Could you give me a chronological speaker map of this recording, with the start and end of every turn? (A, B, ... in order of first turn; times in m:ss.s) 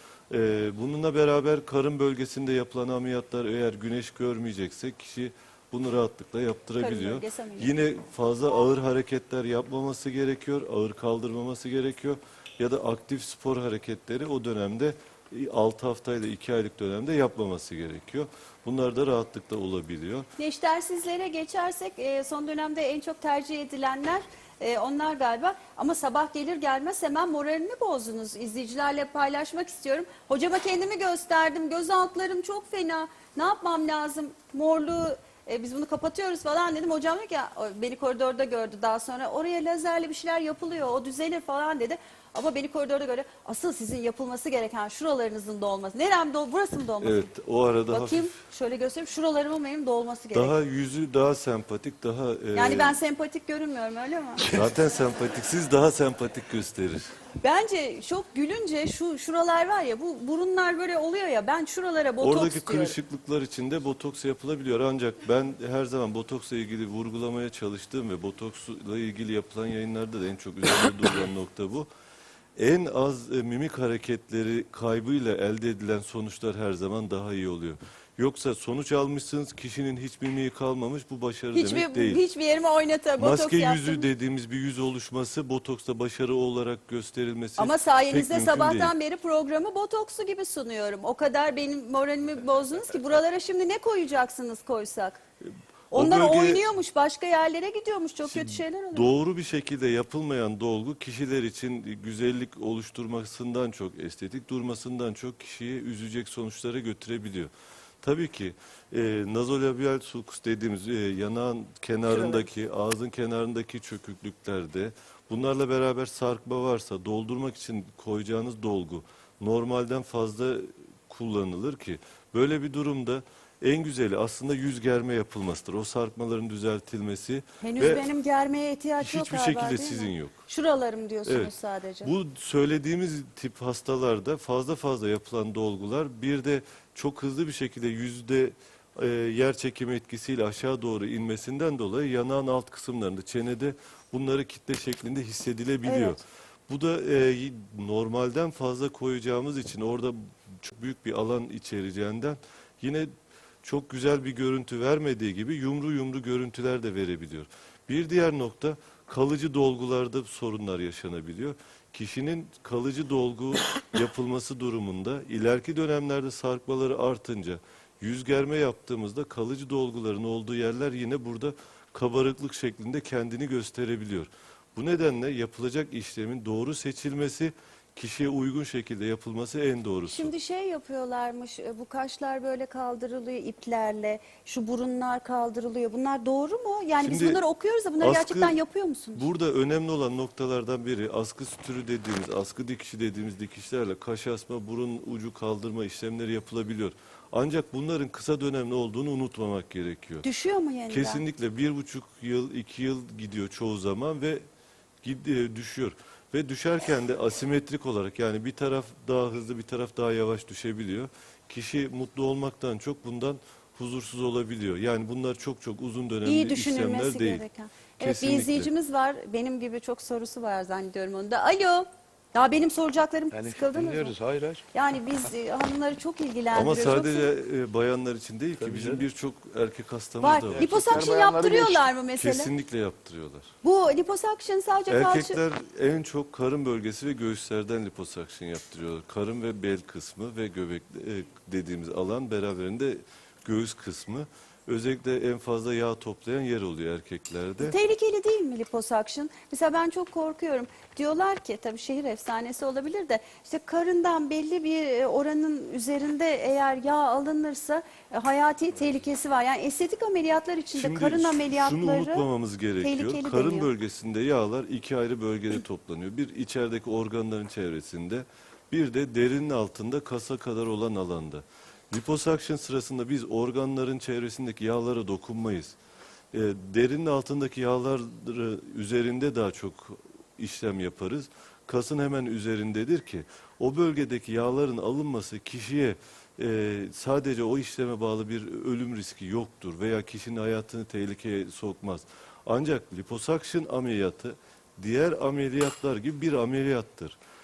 0:00.3-0:20.3 A
0:06.8-0:07.7 B
0:20.4-0:47.3 B
0:47.0-0:48.3 A
0:47.9-0:50.5 B
0:50.3-0:53.0 A
0:52.5-0:54.5 B
0:54.5-0:57.1 A
0:57.4-1:03.0 B
1:02.2-1:11.9 A
1:12.6-1:22.2 A
1:21.5-1:24.0 B
1:23.2-1:28.9 A
1:27.6-1:35.2 B
1:35.4-1:36.6 A
1:35.9-1:39.1 B
1:38.2-2:08.1 A
1:52.1-1:52.4 B
2:07.6-2:12.1 B
2:09.0-2:10.4 A
2:11.2-2:11.5 A
2:12.0-2:33.1 A
2:25.8-2:26.2 B
2:33.6-3:00.3 A
3:00.1-3:09.3 B
3:07.0-3:07.4 A
3:08.0-3:08.6 A
3:09.2-3:20.2 A
3:20.2-3:21.2 B
3:20.9-3:24.4 A
3:25.0-3:37.4 A
3:36.2-3:44.1 B
3:38.0-3:38.7 A
3:43.3-3:44.6 C
3:44.7-3:47.3 B
3:46.5-3:51.0 A
3:48.6-3:49.0 C
3:50.2-3:52.5 B
3:50.5-3:51.9 C
3:52.2-3:53.5 A
3:53.6-3:55.4 B
3:54.9-4:07.8 A
4:07.6-4:22.3 B
4:20.7-4:35.8 A
4:22.8-4:23.7 B
4:36.3-4:57.2 A